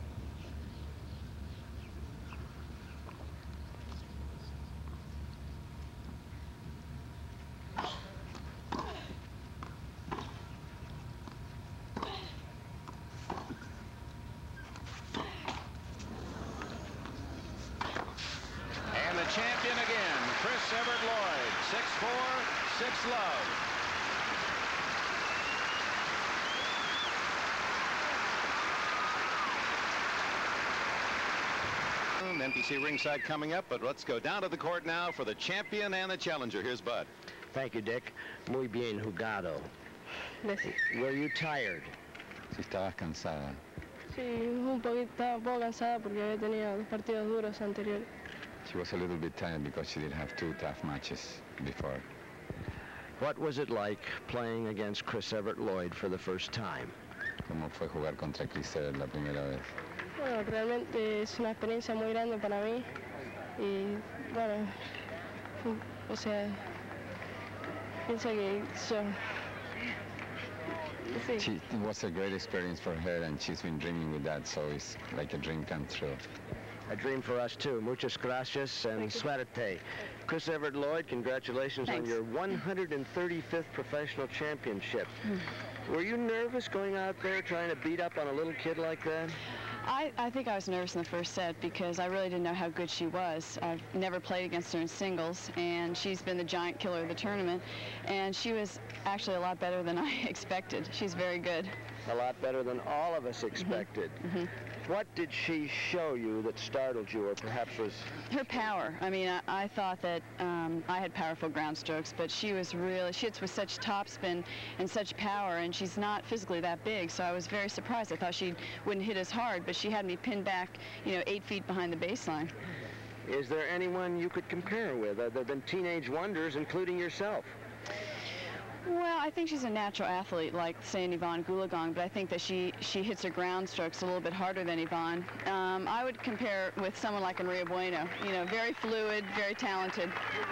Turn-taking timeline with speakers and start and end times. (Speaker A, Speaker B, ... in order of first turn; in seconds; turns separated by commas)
Speaker A: 18.9-23.6, Speaker A: 32.2-37.1, Speaker B: 37.5-39.7, Speaker B: 40.6-41.9, Speaker C: 42.5-43.6, Speaker D: 44.1-48.1, Speaker C: 48.6-52.0, Speaker B: 53.2-57.0, Speaker C: 57.5-59.7, Speaker D: 60.2-62.9, Speaker D: 63.6-64.8, Speaker D: 65.7-66.7, Speaker D: 68.1-69.2, Speaker D: 71.1-71.5, Speaker C: 71.4-76.2, Speaker B: 76.9-85.2, Speaker B: 85.9-89.4, Speaker E: 89.8-101.8, Speaker B: 102.1-104.2, Speaker E: 103.6-104.5, Speaker B: 104.8-108.1, Speaker E: 108.3-122.5, Speaker B: 123.2-127.5, Speaker E: 128.8-140.2